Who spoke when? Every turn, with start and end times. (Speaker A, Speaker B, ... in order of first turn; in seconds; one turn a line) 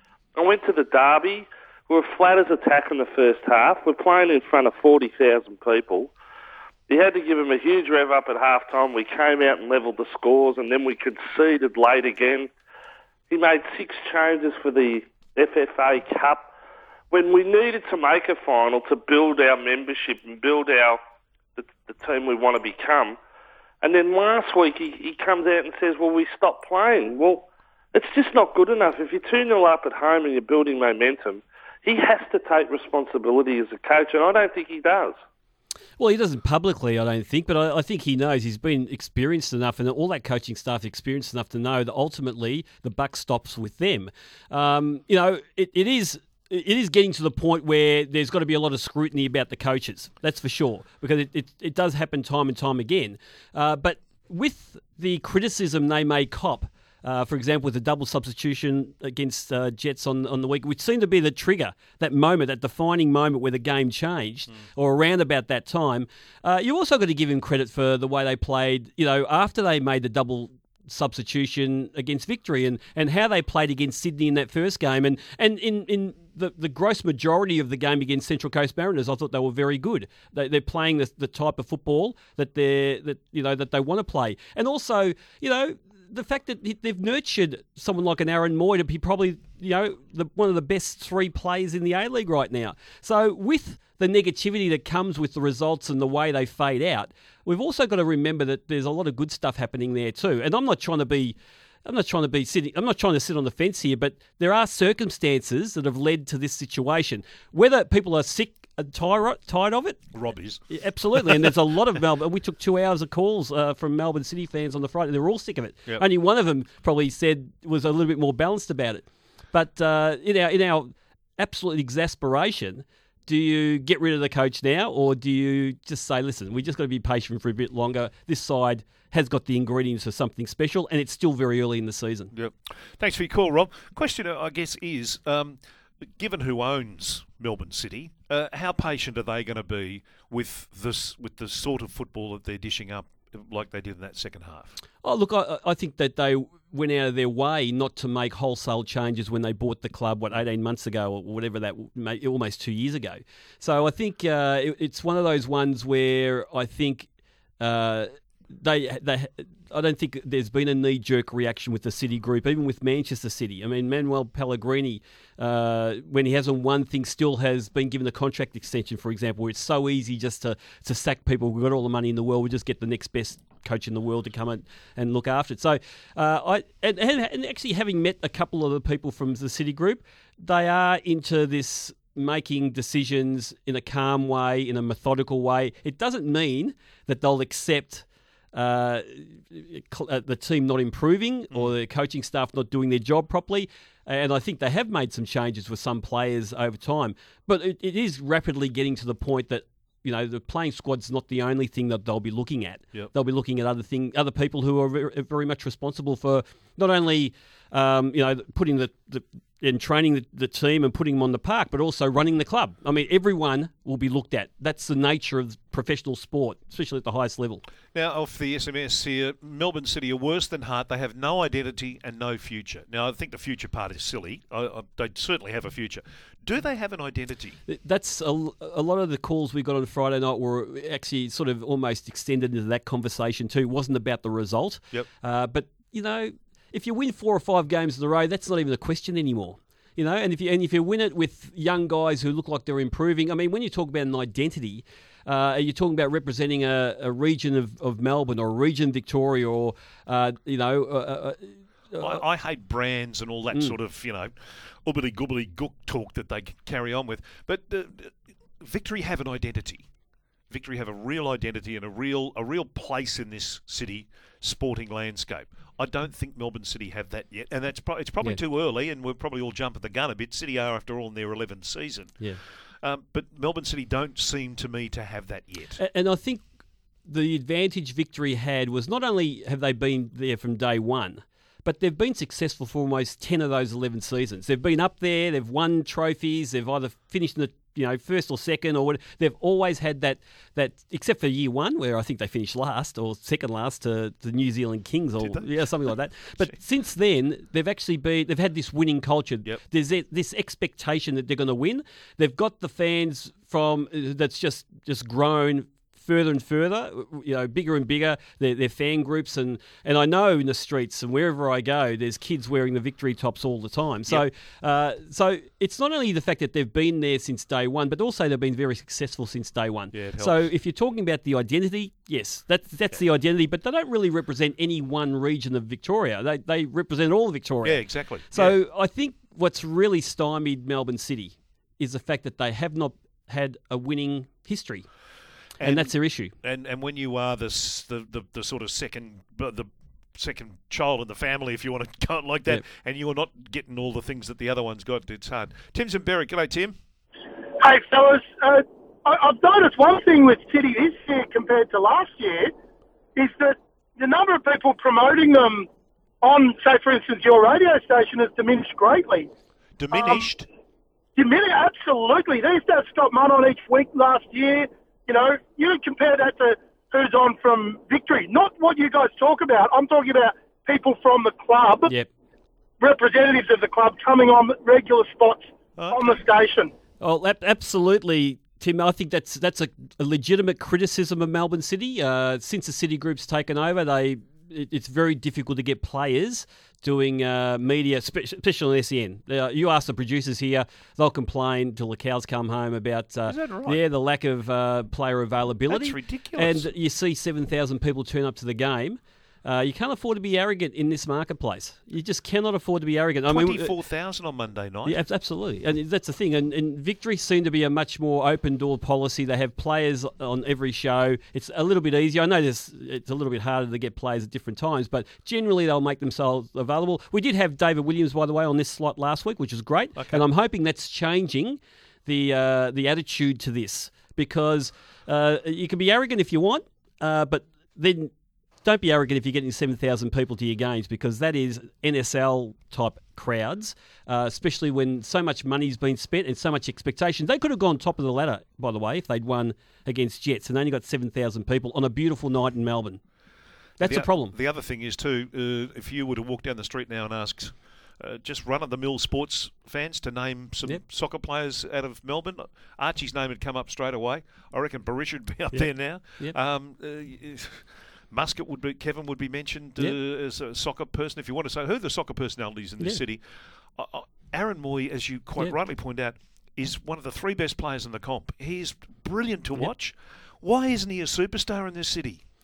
Speaker A: 0.3-6.1
Speaker A: 6.9-12.5
Speaker A: 13.3-16.4
Speaker A: 17.1-21.0
Speaker A: 21.6-23.2
Speaker A: 23.8-35.2
Speaker B: 36.0-110.1
Speaker C: 110.1-111.5
Speaker B: 110.7-132.3
Speaker C: 132.3-144.7
Speaker B: 145.0-157.1
Speaker B: 157.6-217.6
Speaker C: 217.9-227.6
Speaker B: 227.7-252.2
Speaker C: 252.0-259.9
Speaker C: 260.5-275.8
Speaker B: 275.8-276.4
Speaker B: 277.0-334.9
Speaker C: 295.2-295.6
Speaker C: 319.9-320.4
Speaker C: 327.6-328.6
Speaker C: 335.6-346.8
Speaker B: 335.6-336.3
Speaker D: 347.6-352.5
Speaker D: 353.1-355.7
Speaker D: 356.2-359.3
Speaker C: 359.8-360.5
Speaker D: 359.9-360.2
Speaker D: 361.1-371.9
Speaker D: 372.8-376.7
Speaker C: 375.8-376.2
Speaker B: 377.0-403.8
Speaker C: 393.3-393.8
Speaker C: 395.7-396.7
Speaker C: 403.3-405.0
Speaker B: 404.8-428.1
Speaker C: 419.9-420.2
Speaker B: 428.6-443.0
Speaker B: 443.8-444.3
Speaker C: 443.8-472.2
Speaker B: 455.5-456.4